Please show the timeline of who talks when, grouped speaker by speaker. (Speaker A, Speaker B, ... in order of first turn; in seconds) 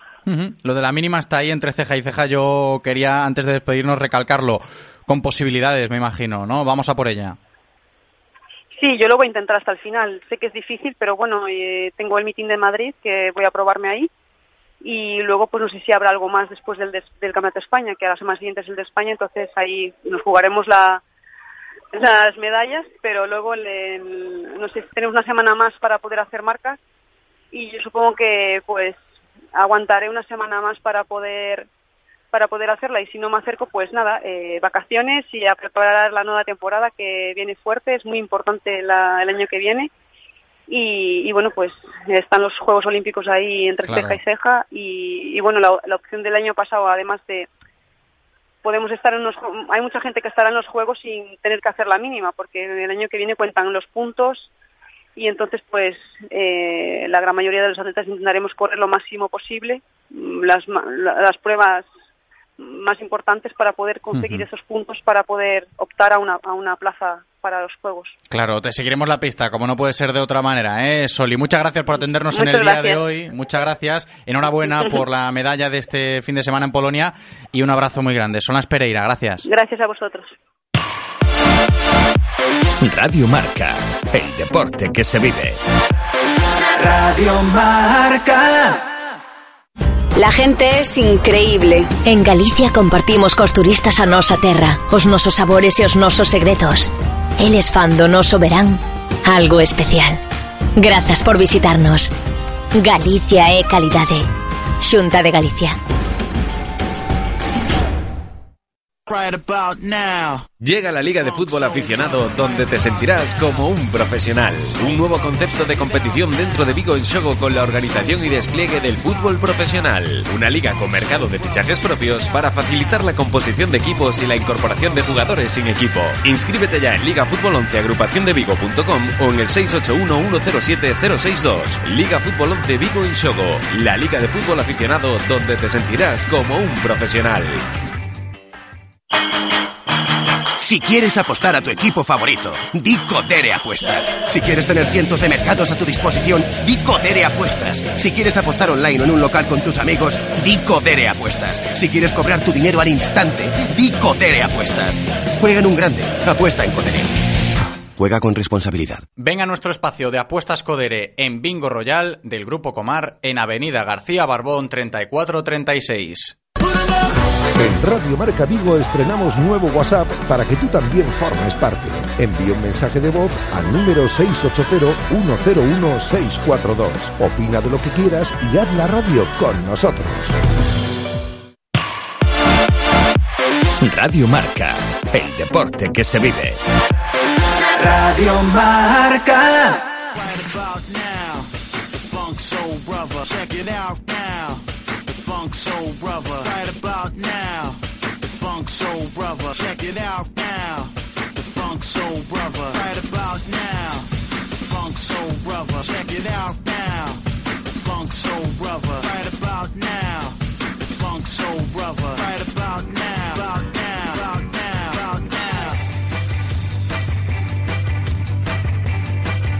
Speaker A: 0.3-7.4, 43.8-44.2, 64.1-64.4, 68.3-79.5, 159.2-166.3
Speaker B: 8.8-14.1, 14.8-21.0, 21.9-26.8, 27.5-29.0, 29.5-31.7, 32.3-39.9, 40.7-47.5, 48.6-54.5, 55.1-61.9, 62.6-68.1, 72.3-73.0, 79.4-80.3
Speaker C: 82.8-85.6, 183.8-186.6
Speaker D: 90.2-100.2, 100.8-102.1, 102.8-104.3, 104.8-105.8
Speaker E: 109.1-110.5, 111.1-113.6, 190.1-215.8
Speaker F: 110.6-137.6
Speaker G: 140.6-157.2, 158.0-159.0
Speaker H: 167.5-180.3